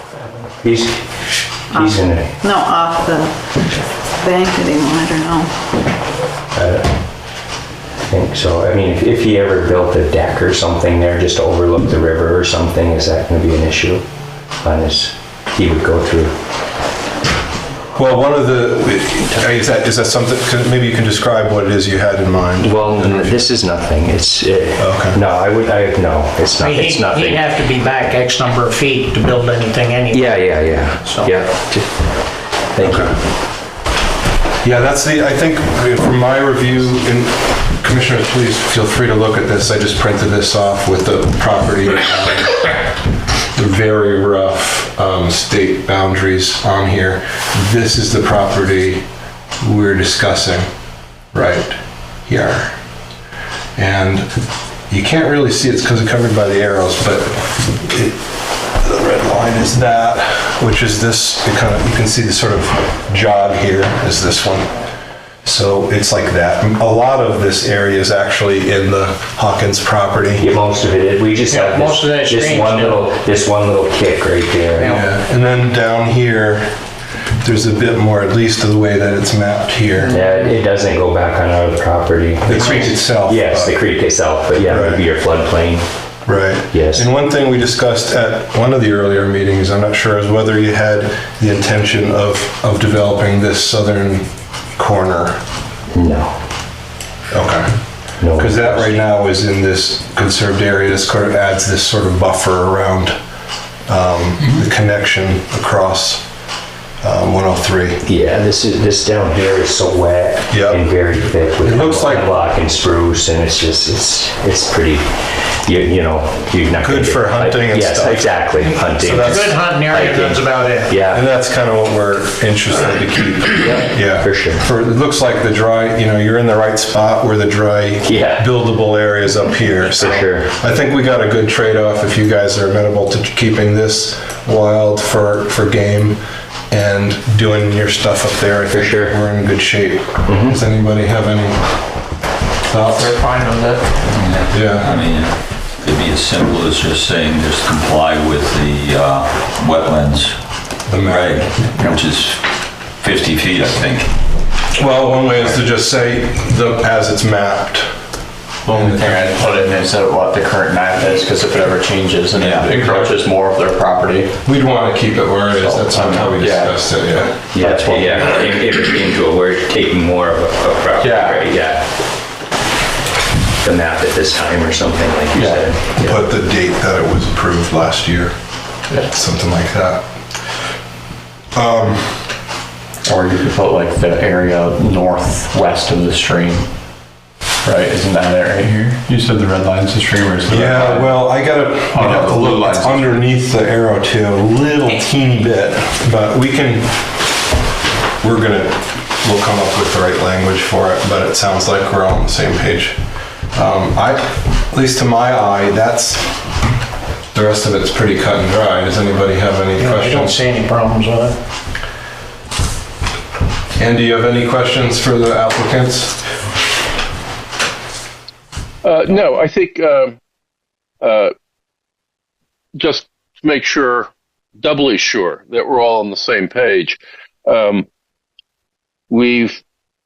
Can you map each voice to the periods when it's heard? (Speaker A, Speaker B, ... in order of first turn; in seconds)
Speaker A: 0.6-1.1, 1.7-2.4, 6.5-6.9, 8.1-14.0, 14.6-16.4, 22.6-27.4, 30.1-31.9, 32.7-33.2, 70.4-75.0, 80.1-85.9, 86.7-87.1, 95.9-96.4, 98.2-99.0, 108.0-121.2, 123.6-124.6, 128.1-128.4, 130.0-130.5, 138.7-139.2, 140.3-140.6, 167.5-171.9, 173.6-176.2
Speaker B: 1.7-3.3, 4.2-5.5
Speaker C: 17.9-23.4, 24.8-25.2, 32.8-33.1, 34.6-42.8, 43.5-49.1, 49.6-50.7, 51.3-52.8, 53.8-54.3, 54.9-58.2, 58.8-64.7, 65.4-70.5, 74.8-76.8, 77.4-80.2, 82.5-83.8, 84.7-85.0, 86.3-95.4, 97.3-97.7, 98.3-103.2, 103.9-106.3, 107.0-108.0, 110.5-110.8, 111.6-112.3, 116.8-119.6, 121.0-141.8, 142.7-143.2, 144.5-144.9, 150.9-151.6, 154.7-157.9, 158.7-159.3, 164.4-167.4, 176.0-178.3, 179.0-180.1, 181.5-182.3, 190.5-197.0, 198.2-203.0, 203.5-206.3, 207.3-210.4, 213.8-216.2
Speaker D: 26.6-31.4, 71.5-73.1, 74.8-75.2, 80.0-80.5, 119.1-120.9, 143.4-143.8, 209.8-211.4
Speaker E: 143.0-143.4, 151.7-152.0, 158.7-164.3, 165.6-168.5, 171.0-171.5, 175.3-175.7, 183.0-186.7, 187.6-193.2
Speaker F: 144.1-154.1, 162.4-162.8
Speaker G: 218.8-220.2, 221.0-221.3, 222.8-224.1, 224.6-227.9, 229.1-229.6